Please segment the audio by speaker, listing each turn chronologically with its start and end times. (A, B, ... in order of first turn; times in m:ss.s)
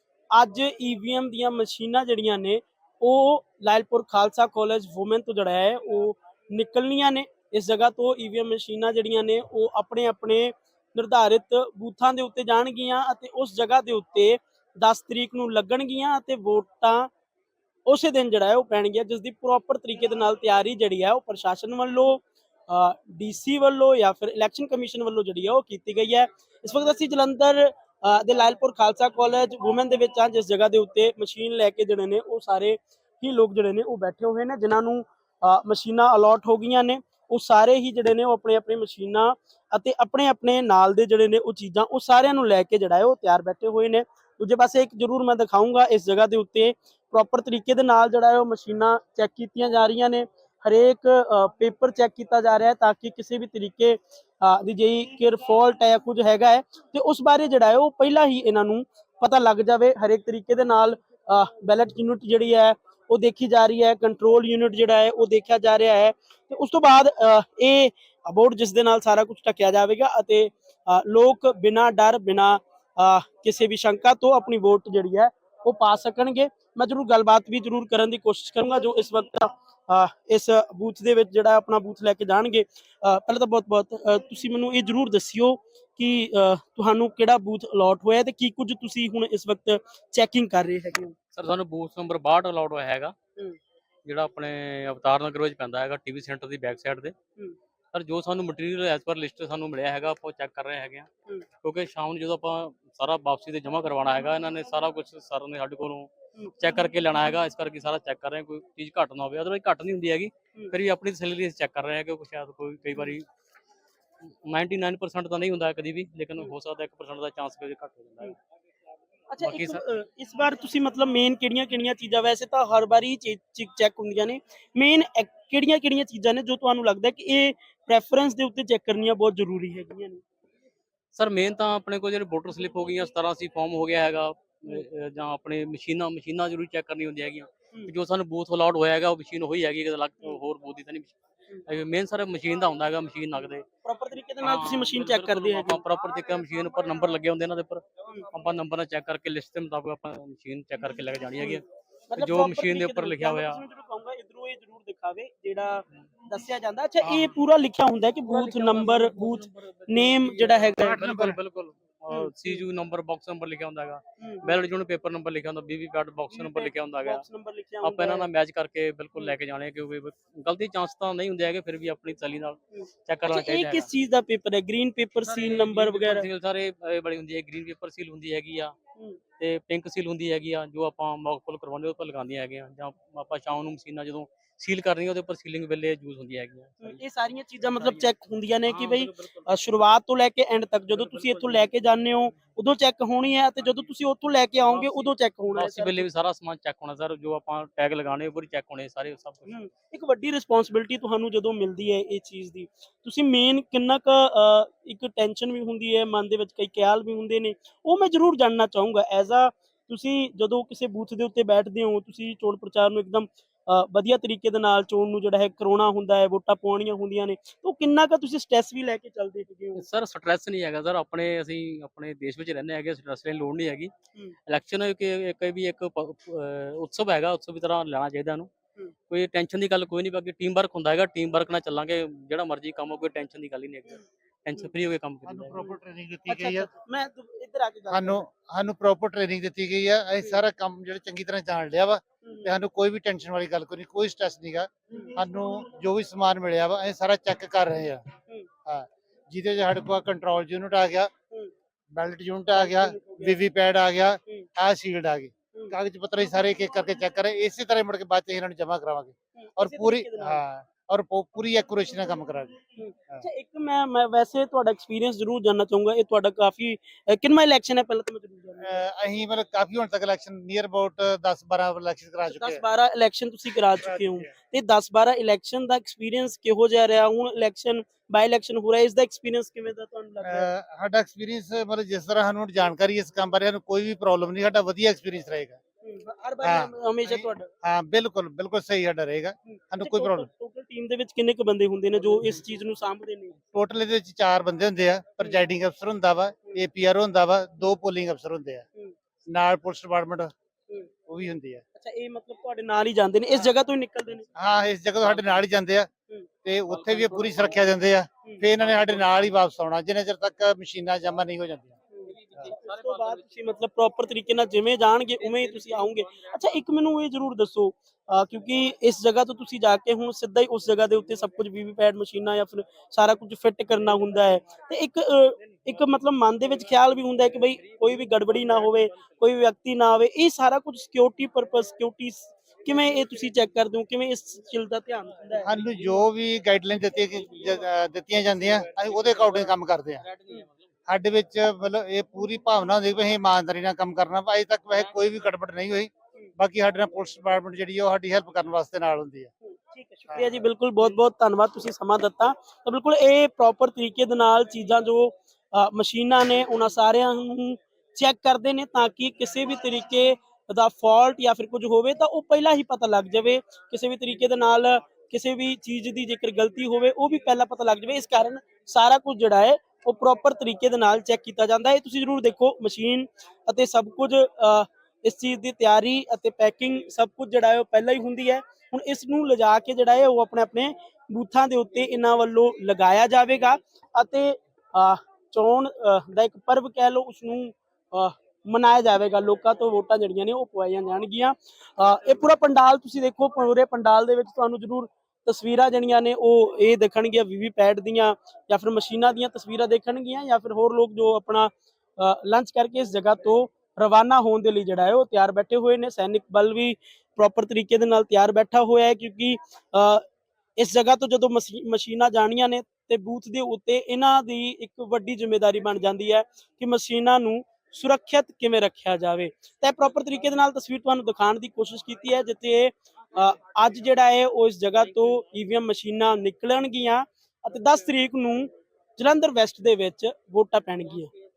0:00.3-0:17.1 A
0:17.9-1:31.1 A
1:31.3-1:33.1 B
1:34.0-1:37.1 B
1:37.9-1:41.1 B
1:41.6-1:53.3 B
1:54.4-1:58.4 B
1:59.3-2:10.2 A
1:59.4-1:59.8 B
2:11.1-2:21.2 B
2:21.7-2:23.7 B
2:23.8-2:25.8 A
2:24.4-2:31.6 B
2:31.4-2:41.0 A
2:32.2-2:33.6 B
2:37.0-2:37.4 B
2:38.2-2:47.2 B
2:40.8-2:41.4 C
2:42.1-2:42.6 A
2:44.2-2:44.6 A
2:46.3-2:48.3 A
2:47.8-2:53.9 B
2:52.7-2:56.3 A
2:55.2-2:58.7 B
2:59.4-3:07.0 B
3:06.8-3:16.1 A
3:07.8-3:08.1 B
3:08.7-3:09.5 B
3:10.9-3:11.7 B
3:14.6-3:19.6 B
3:19.5-3:39.8 A
3:39.8-3:43.9 B
3:44.5-3:48.5 B
3:49.1-3:55.6 B
3:55.2-3:56.7 C
3:56.3-3:58.2 A
3:57.9-4:08.0 C
4:02.2-4:02.5 A
4:04.9-4:05.2 A
4:08.6-4:11.1 C
4:11.9-4:22.6 C
4:12.6-4:13.4 A
4:19.4-4:20.4 A
4:22.8-4:28.8 A
4:28.6-4:32.6 C
4:32.2-4:40.5 A
4:33.8-4:34.3 C
4:40.2-4:45.6 C
4:45.8-4:47.5 A
4:46.4-4:50.3 C
4:49.4-4:53.4 A
4:53.5-4:58.6 C
4:59.2-5:00.3 C
5:01.1-5:01.6 C
5:01.8-5:04.3 A
5:04.4-5:05.9 C
5:06.4-5:11.8 C
5:06.9-5:07.6 B
5:08.6-5:09.3 B
5:11.9-5:35.6 A
5:12.2-5:13.2 B
5:15.4-5:15.8 B
5:35.4-5:40.0 C
5:38.5-5:40.5 B
5:40.9-5:49.3 C
5:49.4-6:50.0 A
5:50.1-5:50.4 C
6:50.6-7:11.1 A